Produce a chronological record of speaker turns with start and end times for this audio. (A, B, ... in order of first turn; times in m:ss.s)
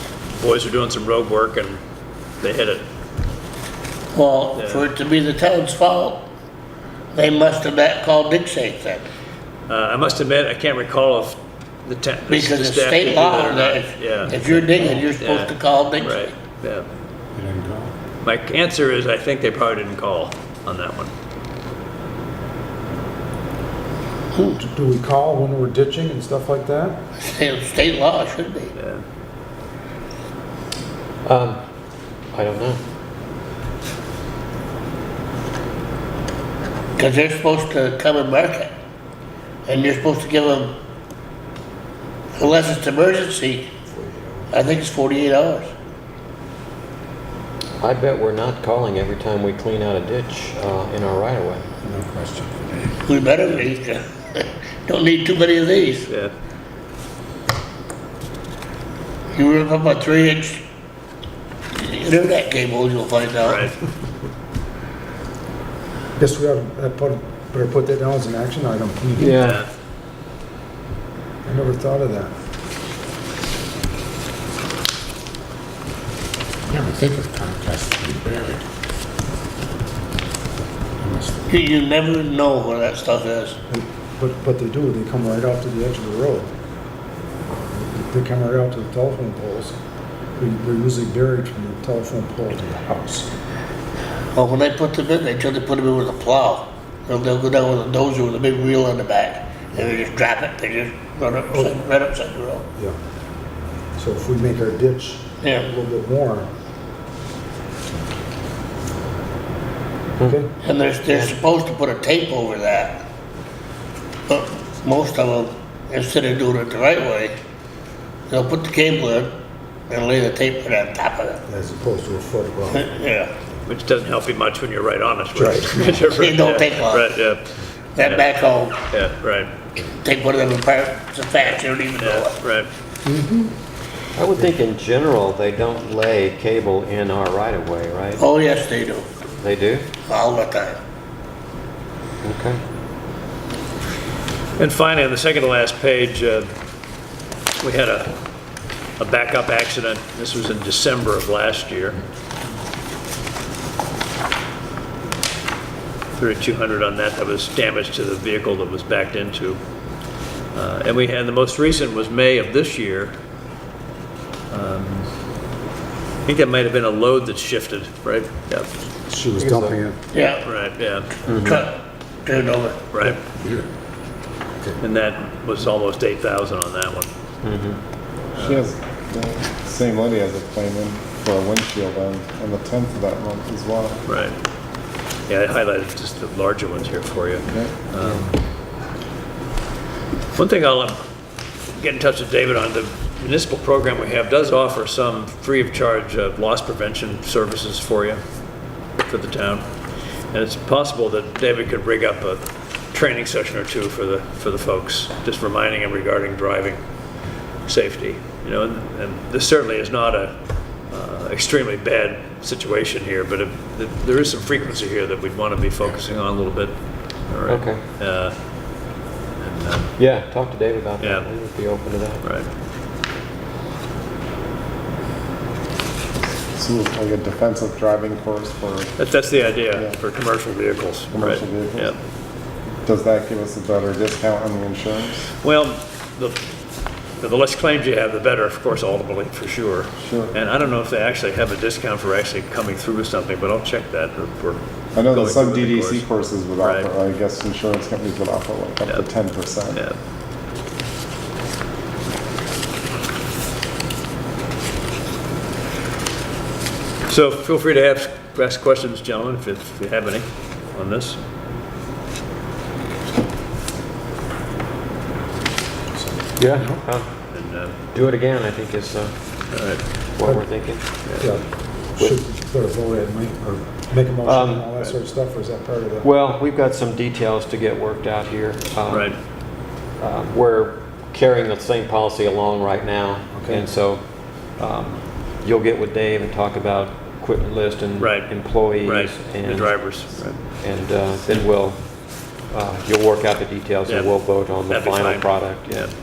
0:00.3-0:01.8 A
0:02.4-0:02.8 A
0:04.1-0:06.3 B
0:04.6-0:04.8 A
0:07.2-0:09.0 B
0:09.7-0:16.9 A
0:12.3-0:16.3 B
0:17.4-0:17.9 C
0:17.4-0:17.9 D
0:18.2-0:21.1 A
0:24.4-0:24.6 B
0:24.6-0:27.0 E
0:27.2-0:28.7 B
0:28.8-0:29.0 A
0:31.3-0:31.6 F
0:32.3-0:32.8 F
0:37.0-0:38.7 B
0:39.7-0:40.8 B
0:42.4-0:43.7 B
0:43.9-0:44.6 E
0:44.5-0:45.7 B
0:47.8-0:51.7 F
0:51.8-0:52.6 E
0:53.0-0:56.1 B
0:56.1-0:56.3 A
0:59.3-1:00.6 B
1:01.8-1:03.6 B
1:03.4-1:03.8 A
1:06.2-1:09.5 E
1:09.2-1:09.6 F
1:09.3-1:09.7 A
1:11.4-1:12.3 E
1:16.7-1:18.6 D
1:21.0-1:21.4 D
1:21.5-1:23.6 B
1:23.7-1:26.5 E
1:27.7-1:29.8 E
1:30.4-1:33.3 E
1:34.3-1:42.6 B
1:41.5-1:41.8 E
1:44.0-1:46.5 E
1:45.4-1:45.7 B
1:50.2-1:50.5 E
1:50.6-1:53.0 B
1:51.1-1:51.4 F
1:54.3-1:57.3 B
1:58.3-1:59.3 B
1:59.9-2:01.4 B
2:01.5-2:02.9 E
2:02.7-2:03.3 B
2:03.7-2:07.5 A
2:05.4-2:06.0 E
2:06.1-2:07.1 B
2:08.0-2:08.8 B
2:08.0-2:08.3 A
2:08.9-2:09.5 A
2:09.8-2:12.3 B
2:12.0-2:12.7 A
2:13.1-2:13.5 E
2:14.2-2:18.2 F
2:18.2-2:19.1 B
2:19.4-2:19.9 F
2:20.1-2:20.8 B
2:22.2-2:22.6 F
2:24.6-2:26.5 A
2:27.6-2:28.1 A
2:29.0-2:32.0 A
2:36.2-2:39.6 A
2:40.5-2:43.1 A
2:44.5-2:45.1 A
2:46.2-2:48.7 A
2:49.1-2:50.0 E
2:49.4-2:49.8 F
2:50.1-2:50.5 B
2:50.4-2:51.1 A
2:51.3-2:51.7 F
2:51.3-2:52.9 B
2:52.9-2:53.2 A
2:54.8-2:57.1 A
2:57.4-2:57.8 F
2:58.4-2:58.6 A
2:58.4-3:04.0 C
3:04.1-3:04.4 A
3:05.3-3:08.3 A
3:07.5-3:07.8 C
3:10.4-3:11.0 A
3:11.8-3:18.2 A
3:19.0-3:19.7 A
3:20.3-3:26.8 A
3:27.7-3:30.4 A
3:30.9-3:38.4 A
3:37.5-3:37.8 F
3:39.4-3:40.0 A
3:40.0-3:42.2 F
3:41.0-3:41.3 A
3:42.2-3:42.5 A
3:46.5-3:50.0 C
3:49.0-3:52.0 A
3:51.1-3:52.0 C
3:52.8-3:55.3 C
3:55.4-3:56.4 A
3:57.2-4:06.1 A
4:00.0-4:00.4 C
4:05.0-4:09.8 C
4:06.6-4:06.9 A
4:09.7-4:10.0 A
4:17.1-4:21.2 A
4:25.9-4:26.8 E
4:26.4-4:27.1 F
4:27.3-4:27.7 A
4:27.9-4:29.6 F
4:29.5-4:29.8 A
4:30.1-4:30.8 F
4:31.2-4:36.1 E
4:34.2-4:34.7 F
4:36.0-4:55.9 F
4:38.9-4:39.2 A
4:43.3-4:43.7 E
4:48.0-4:48.3 A
4:48.8-4:50.4 A
4:54.7-4:55.9 A